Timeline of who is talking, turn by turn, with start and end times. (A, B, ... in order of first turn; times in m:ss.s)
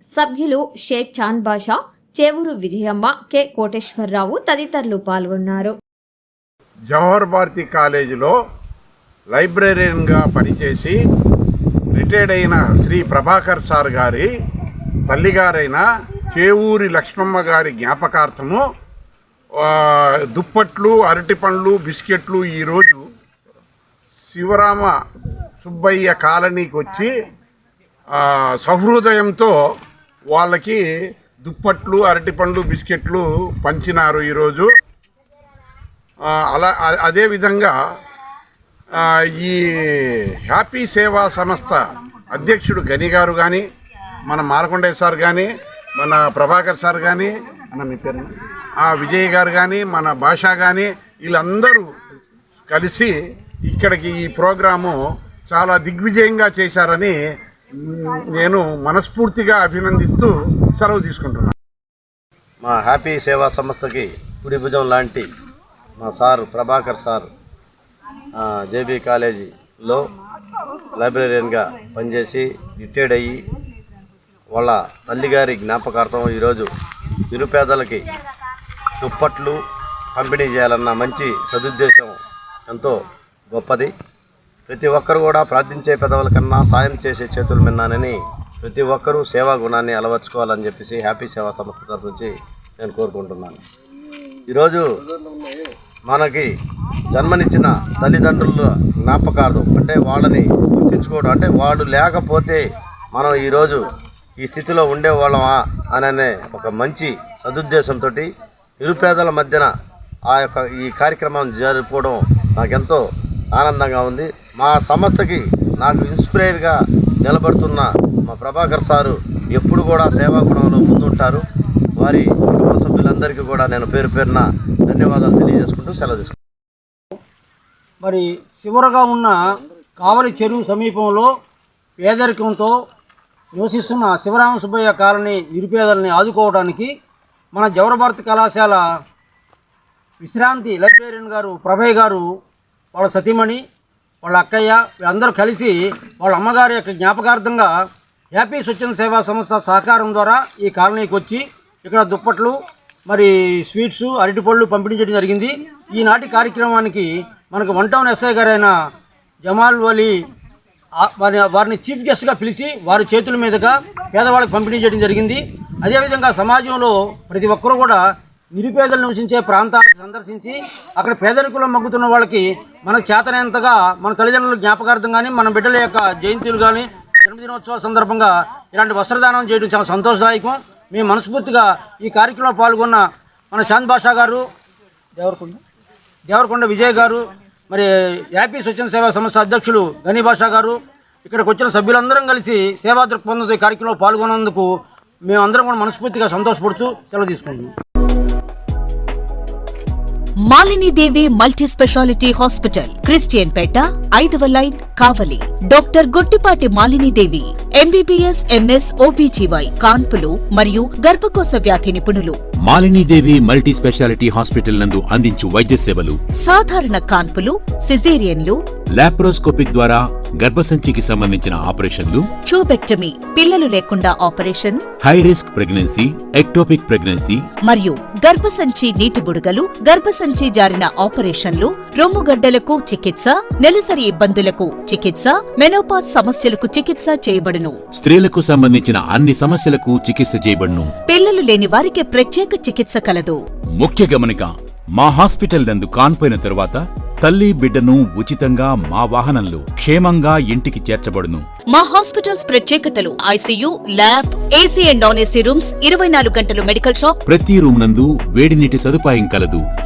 0:00.2-0:05.8 A
0:06.9-0:08.3 B
0:09.3-0:11.0 B
0:11.9-0:14.3 B
0:15.1-0:18.6 B
0:19.6-0:23.0 B
0:24.3-0:24.9 B
0:25.6-0:27.1 B
0:28.2-0:29.5 B
0:30.3-0:30.8 B
0:31.4-0:34.7 B
0:36.2-0:37.8 B
0:39.0-0:43.6 B
0:44.3-0:51.9 B
0:52.7-0:53.1 B
0:53.7-0:55.0 B
0:55.5-0:57.2 B
0:57.8-1:01.5 B
1:02.6-1:05.3 C
1:06.0-1:07.3 C
1:08.4-1:10.1 C
1:11.0-1:13.4 C
1:14.5-1:16.7 C
1:17.3-1:18.0 C
1:19.0-1:19.6 C
1:20.2-1:22.2 C
1:22.7-1:23.0 C
1:23.5-1:23.9 C
1:24.7-1:33.6 C
1:34.5-1:34.9 C
1:36.1-1:36.5 C
1:37.1-1:43.8 C
1:44.4-1:48.3 C
1:48.8-1:49.7 C
1:50.3-1:53.0 C
1:53.6-2:01.4 C
2:02.0-2:06.4 C
2:08.0-2:09.4 D
2:10.0-2:11.3 D
2:12.0-2:12.8 D
2:13.5-2:16.9 D
2:17.5-2:18.9 D
2:20.2-2:22.3 D
2:22.9-2:23.6 D
2:24.2-2:27.7 D
2:28.3-2:38.7 D
2:39.4-2:40.2 D
2:41.0-3:04.5 D
3:05.2-3:05.6 D
3:06.3-3:14.7 D
3:15.2-3:17.7 D
3:20.5-3:32.4 E
3:32.7-3:36.2 F
3:36.4-3:38.6 E
3:38.9-3:42.3 F
3:42.5-3:44.8 E
3:45.0-3:47.4 F
3:47.6-3:57.8 E
3:58.0-4:00.9 F
4:01.1-4:03.4 E
4:03.8-4:11.5 F
4:11.7-4:17.2 E
4:17.3-4:19.6 F